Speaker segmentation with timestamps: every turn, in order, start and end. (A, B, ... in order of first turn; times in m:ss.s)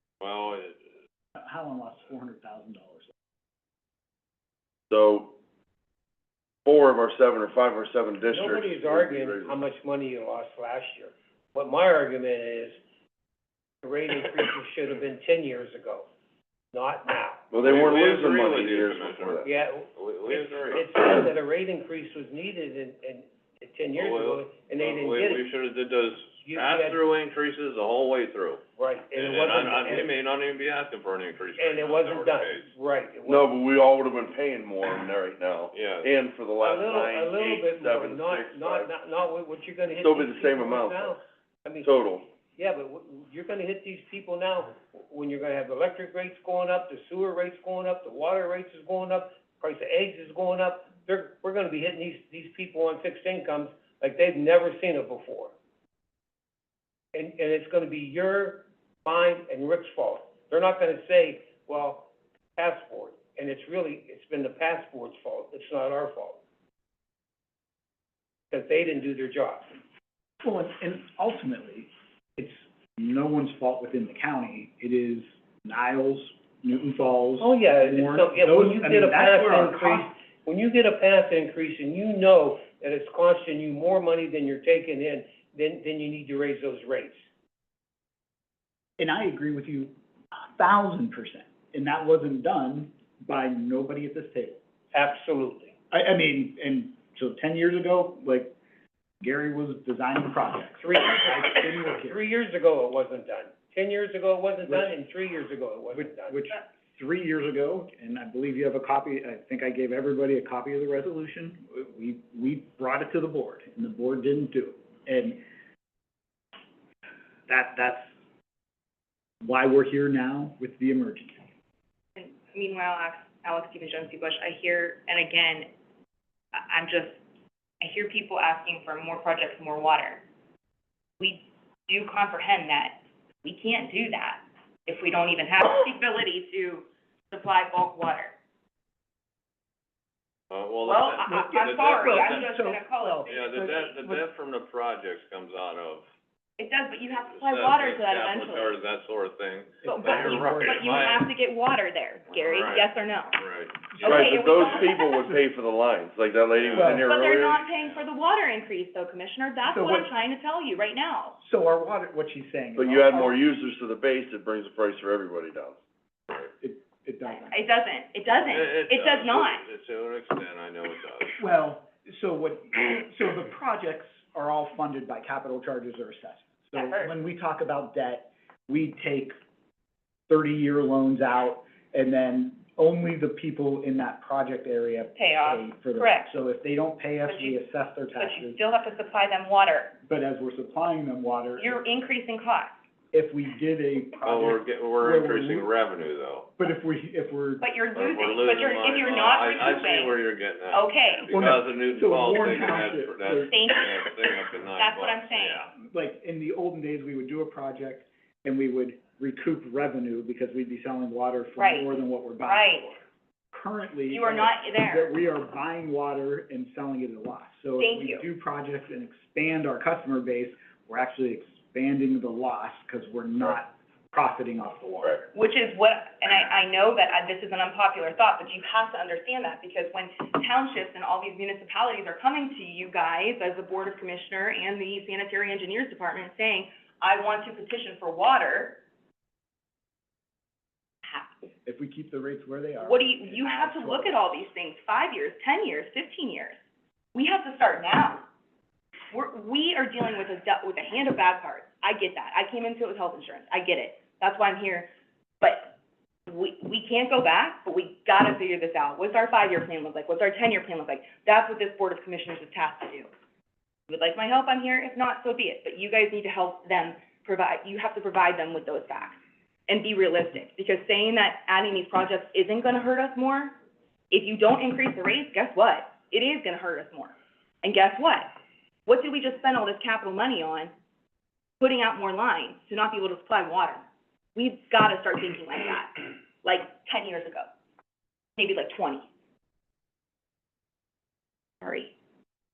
0:00.2-0:00.8 A
0:01.4-0:03.1 B
0:04.9-0:05.3 C
0:06.6-0:09.6 C
0:08.3-0:12.8 D
0:13.8-0:16.1 D
0:16.7-0:17.4 D
0:17.5-0:19.4 C
0:17.6-0:20.8 A
0:19.4-0:25.5 D
0:23.9-0:28.6 A
0:26.4-0:27.0 D
0:28.8-0:30.1 D
0:29.1-0:32.7 A
0:31.6-0:33.5 D
0:33.2-0:38.9 C
0:35.7-0:36.1 A
0:36.6-0:41.9 D
0:39.9-0:41.2 C
0:41.8-0:42.3 C
0:42.5-0:55.5 D
0:57.1-1:06.4 D
1:08.5-1:09.8 D
1:10.4-1:20.1 B
1:17.4-1:27.2 D
1:29.0-1:34.6 B
1:34.9-1:35.7 D
1:35.9-1:38.5 B
1:39.2-1:42.2 B
1:40.8-1:46.4 D
1:44.6-1:44.9 B
1:45.9-1:55.4 B
1:57.5-1:58.0 B
1:59.4-2:01.4 B
2:02.2-2:05.7 E
2:06.5-2:07.2 E
2:07.8-2:10.2 E
2:11.2-2:18.4 E
2:20.5-2:22.5 A
2:20.8-2:23.9 E
2:21.2-2:24.2 B
2:23.3-2:26.0 A
2:26.6-2:28.8 E
2:27.3-2:31.2 A
2:29.8-2:31.2 B
2:29.8-2:33.4 E
2:32.3-2:34.3 A
2:33.9-2:34.7 B
2:34.0-2:37.6 C
2:34.0-2:35.1 E
2:36.6-2:37.0 A
2:36.8-2:37.1 B
2:36.8-2:41.4 E
2:39.6-2:40.1 B
2:41.4-2:43.4 B
2:42.8-2:45.8 C
2:46.6-2:47.6 B
2:47.2-2:49.6 E
2:48.3-2:51.4 A
2:51.4-2:59.3 B
2:56.7-2:57.1 E
3:00.3-3:08.6 B
3:05.1-3:06.3 E
3:07.3-3:07.6 E
3:08.2-3:10.0 E
3:10.0-3:11.8 B
3:11.6-3:12.8 E
3:13.1-3:15.7 B
3:14.2-3:16.5 A
3:16.6-3:17.6 B
3:17.6-3:20.2 E
3:17.9-3:25.7 A
3:20.7-3:21.3 E
3:21.3-3:23.5 B
3:23.5-3:24.2 E
3:24.8-3:25.6 E
3:25.8-3:33.0 B
3:31.6-3:32.9 E
3:33.5-3:45.3 B
3:34.1-3:35.1 E
3:37.8-3:38.3 E
3:45.3-3:58.8 E
4:01.0-4:01.4 E
4:01.6-4:04.5 B
4:02.8-4:06.6 E
4:07.1-4:08.2 E
4:09.1-4:14.9 E
4:15.4-4:15.7 E
4:16.3-4:23.1 E
4:23.9-4:33.5 E
4:34.1-4:38.3 E
4:38.8-4:40.7 E
4:41.6-4:43.8 E
4:44.3-4:47.4 E
4:48.4-4:49.1 E
4:51.6-4:51.9 E